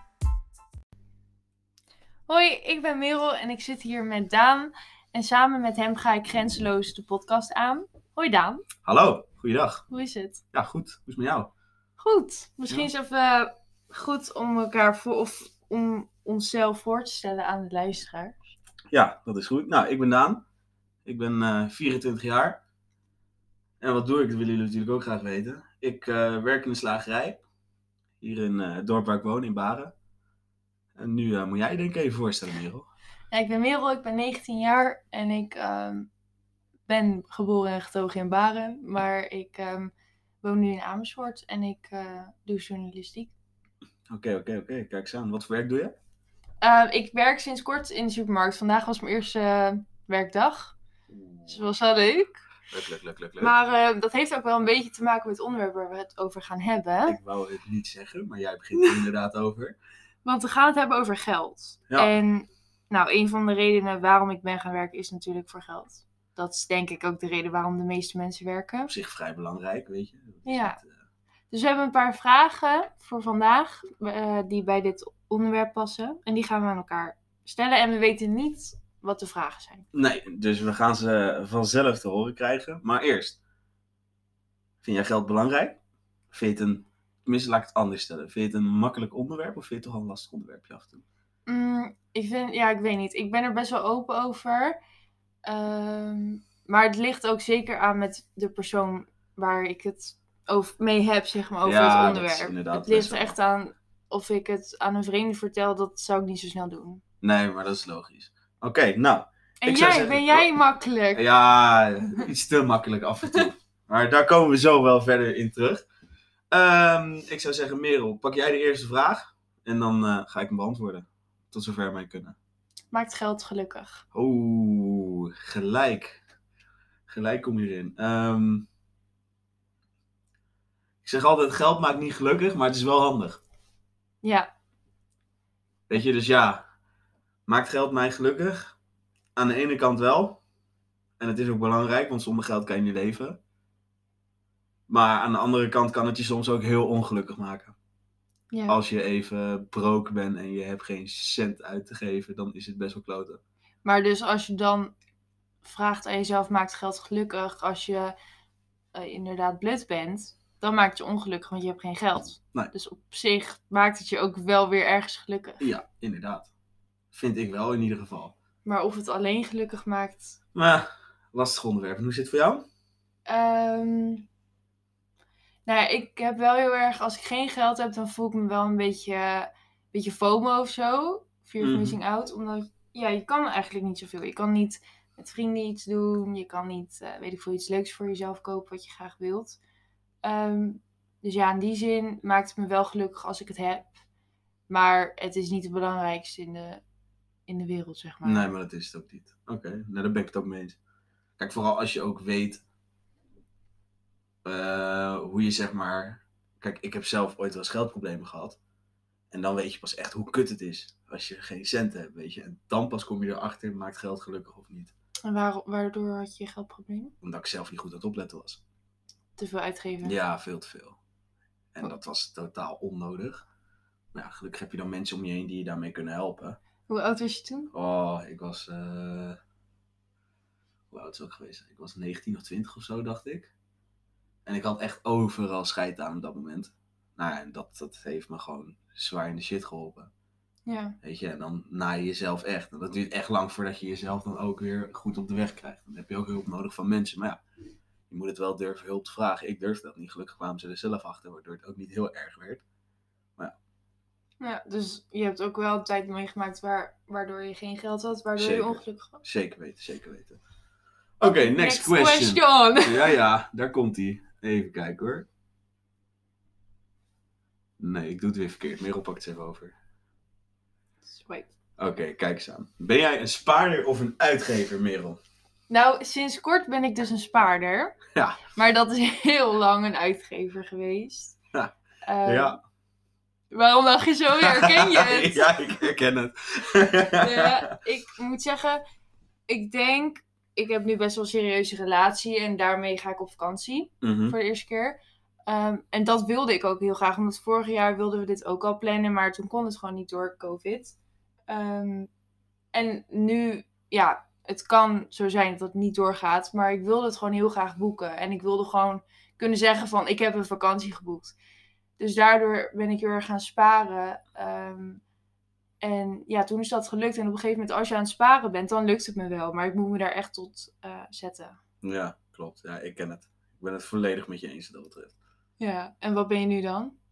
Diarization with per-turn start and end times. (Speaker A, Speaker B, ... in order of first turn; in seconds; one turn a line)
Speaker A: 2.3-8.6
Speaker B: 8.8-9.8
Speaker A: 9.9-10.4
Speaker B: 10.5-11.5
Speaker A: 12.0-18.5
Speaker B: 18.9-20.4
Speaker B: 21.0-22.6
Speaker B: 23.8-27.4
Speaker B: 28.2-29.9
Speaker B: 31.0-32.9
Speaker A: 33.3-36.1
Speaker A: 36.9-43.3
Speaker B: 44.1-45.9
Speaker A: 46.6-50.7
Speaker B: 51.1-51.7
Speaker A: 51.5-52.4
Speaker B: 52.7-53.5
Speaker A: 53.4-57.2
Speaker B: 57.0-59.8
Speaker A: 58.8-59.0
Speaker A: 60.2-68.9
Speaker B: 68.9-71.0
Speaker A: 70.5-70.8
Speaker A: 71.5-79.9
Speaker B: 79.9-83.4
Speaker B: 84.8-85.8
Speaker B: 86.3-91.0
Speaker A: 91.5-94.8
Speaker A: 95.5-107.0
Speaker B: 101.6-103.3
Speaker B: 107.2-110.5
Speaker A: 109.6-111.2
Speaker B: 111.2-115.8
Speaker B: 116.5-122.3
Speaker A: 122.9-124.0
Speaker B: 124.1-126.2
Speaker B: 127.1-128.7
Speaker B: 131.0-133.4
Speaker A: 134.2-134.5
Speaker B: 135.9-136.6
Speaker B: 137.4-138.8
Speaker B: 139.3-140.4
Speaker B: 141.2-143.4
Speaker B: 144.9-147.8
Speaker A: 148.5-148.8
Speaker B: 148.7-153.4
Speaker A: 153.8-154.9
Speaker A: 155.6-158.2
Speaker A: 158.9-165.7
Speaker B: 165.6-166.5
Speaker B: 167.1-168.3
Speaker A: 168.7-170.3
Speaker B: 170.5-172.7
Speaker A: 173.3-174.2
Speaker A: 175.7-189.6
Speaker B: 181.6-182.0
Speaker A: 190.2-193.9
Speaker A: 194.7-196.8
Speaker A: 197.5-198.5
Speaker B: 198.2-200.8
Speaker B: 201.4-202.6
Speaker B: 204.4-208.6
Speaker B: 209.3-214.9
Speaker A: 215.2-217.1
Speaker B: 217.2-218.6
Speaker A: 219.4-220.2
Speaker B: 220.0-221.0
Speaker B: 221.7-223.4
Speaker B: 224.1-226.6
Speaker A: 226.9-227.7
Speaker B: 227.7-229.4
Speaker B: 230.9-233.5
Speaker B: 234.4-240.1
Speaker A: 240.7-241.0
Speaker B: 241.0-247.4
Speaker B: 248.1-252.6
Speaker A: 254.4-259.2
Speaker B: 258.4-260.4
Speaker B: 261.2-265.3
Speaker A: 261.2-263.2
Speaker B: 267.8-269.8
Speaker A: 271.1-271.5
Speaker B: 271.8-275.2
Speaker A: 275.7-278.0
Speaker A: 278.6-281.4
Speaker A: 282.1-282.6
Speaker B: 282.2-282.6
Speaker A: 283.5-285.7
Speaker B: 284.4-287.7
Speaker A: 287.2-288.8
Speaker A: 289.5-301.0
Speaker B: 294.0-294.4
Speaker A: 301.5-302.1
Speaker A: 302.7-311.4
Speaker A: 312.0-315.0
Speaker A: 315.8-321.6
Speaker B: 321.8-325.1
Speaker A: 325.6-327.0